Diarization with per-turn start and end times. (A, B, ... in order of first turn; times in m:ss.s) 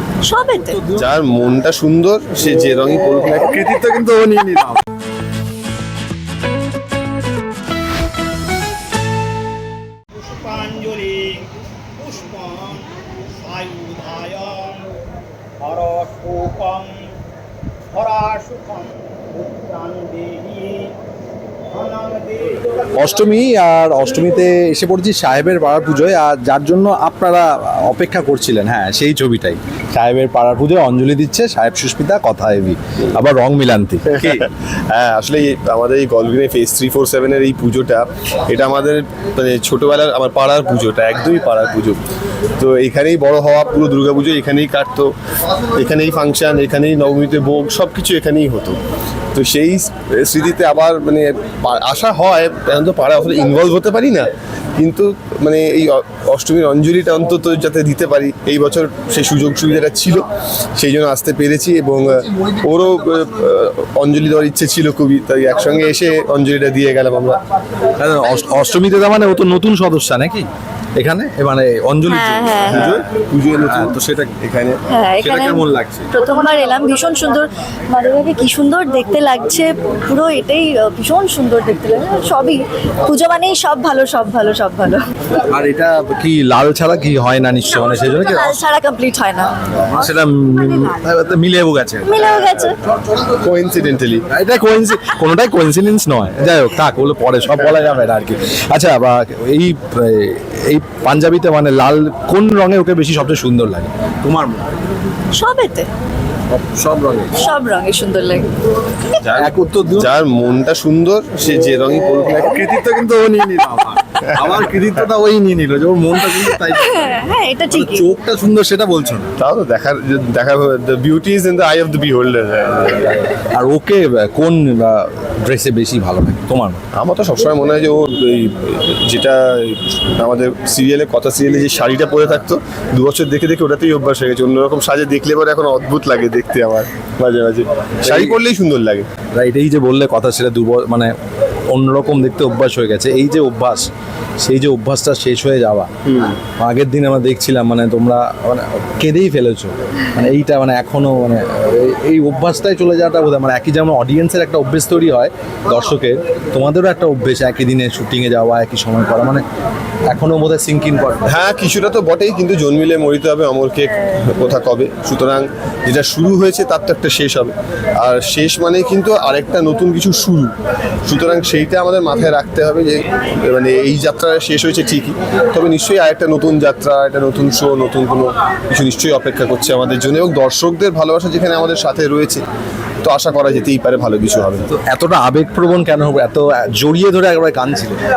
0:00.2-0:00.8 A
0:00.9-0:03.7 B
0:03.4-0:04.8 C
0:10.2-0:15.0 D
0:15.6-0:17.1 D
0:17.9-0:21.0 D
0:21.7-0:22.6 D
0:23.0-0:34.5 C
0:34.1-0:42.0 B
0:42.6-0:45.1 B
0:45.8-0:48.8 B
0:49.3-1:00.2 B
1:00.8-1:07.4 B
1:08.0-1:13.1 C
1:12.1-1:13.0 A
1:12.7-1:14.8 B
1:13.6-1:14.4 C
1:14.9-1:25.0 A
1:15.2-1:16.1 C
1:25.5-1:28.6 C
1:27.9-1:30.9 A
1:29.9-1:32.2 C
1:32.0-1:32.8 A
1:33.2-1:34.3 B
1:34.3-1:44.6 C
1:45.3-1:45.9 A
1:46.5-1:47.4 C
1:47.3-1:48.5 A
1:49.2-1:52.7 B
1:49.4-1:50.1 C
1:52.4-1:57.1 C
1:56.4-1:58.1 A
1:57.7-1:59.3 C
1:59.4-2:03.4 B
2:03.3-2:06.8 C
2:06.9-2:19.1 B
2:18.0-2:18.4 C
2:19.3-2:21.1 C
2:21.7-2:23.9 C
2:24.4-2:25.9 C
2:26.0-2:26.4 B
2:26.6-2:39.4 C
2:40.1-2:41.2 C
2:41.2-2:50.5 B
2:51.1-3:02.4 B
3:03.0-3:04.7 B
3:04.7-3:08.0 C